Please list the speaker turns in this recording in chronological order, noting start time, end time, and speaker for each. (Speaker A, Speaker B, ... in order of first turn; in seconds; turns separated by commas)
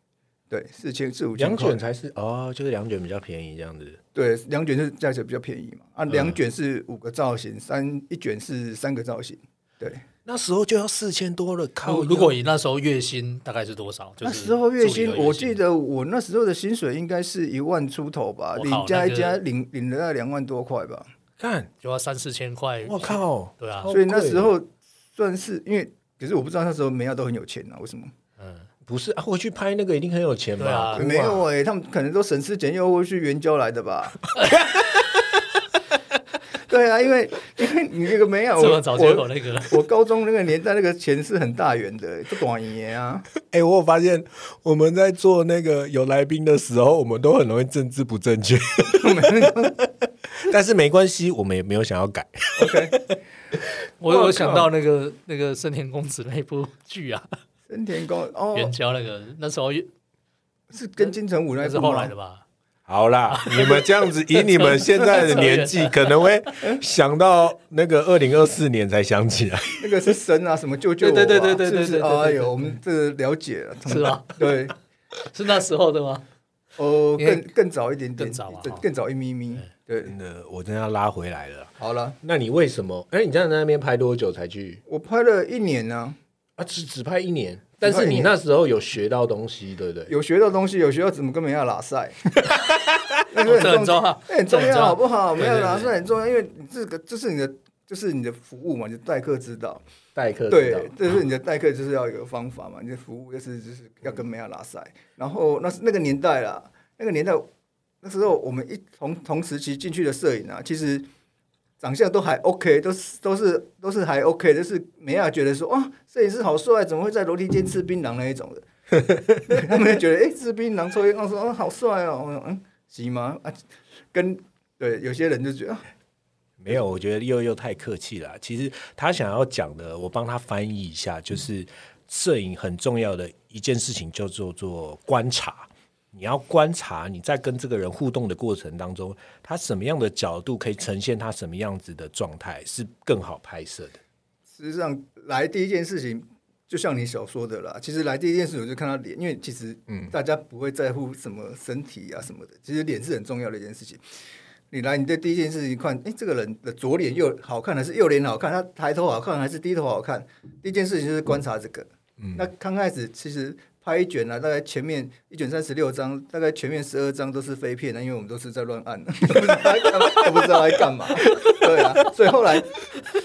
Speaker A: 0.5-1.8, Speaker B: 1.4-4.0, Speaker A: 4.2-10.0, Speaker B: 6.1-6.4, Speaker B: 10.3-12.4, Speaker C: 11.8-15.6, Speaker A: 14.2-21.1, Speaker C: 18.6-19.4, Speaker B: 21.4-21.7, Speaker C: 21.8-23.9, Speaker B: 22.9-24.5, Speaker A: 23.9-28.1, Speaker C: 28.4-28.7, Speaker B: 28.9-31.5, Speaker C: 30.6-31.0, Speaker A: 31.0-34.3, Speaker B: 34.4-35.5, Speaker A: 36.6-43.3, Speaker C: 38.6-39.8, Speaker B: 43.5-54.6, Speaker A: 49.0-49.8, Speaker A: 52.6-53.0, Speaker C: 54.0-57.3, Speaker A: 57.7-58.7, Speaker C: 58.5-59.9, Speaker A: 60.7-62.1, Speaker C: 61.0-62.5, Speaker B: 62.9-70.1, Speaker C: 63.3-66.5, Speaker A: 69.8-74.7, Speaker C: 71.0-72.7, Speaker C: 73.9-74.6, Speaker C: 75.3-76.2, Speaker A: 76.8-80.2, Speaker C: 77.2-77.5, Speaker C: 78.2-78.8, Speaker B: 80.1-84.8, Speaker A: 81.8-82.2, Speaker A: 84.9-86.2, Speaker B: 86.6-90.1, Speaker A: 87.8-88.3, Speaker A: 90.1-92.3, Speaker A: 93.3-99.8, Speaker C: 93.4-95.9, Speaker B: 100.2-101.0, Speaker A: 100.5-107.5, Speaker A: 108.0-111.1, Speaker A: 111.8-125.8, Speaker B: 126.6-144.0, Speaker A: 144.5-154.0, Speaker A: 154.7-172.9, Speaker B: 162.2-162.5, Speaker B: 169.5-172.1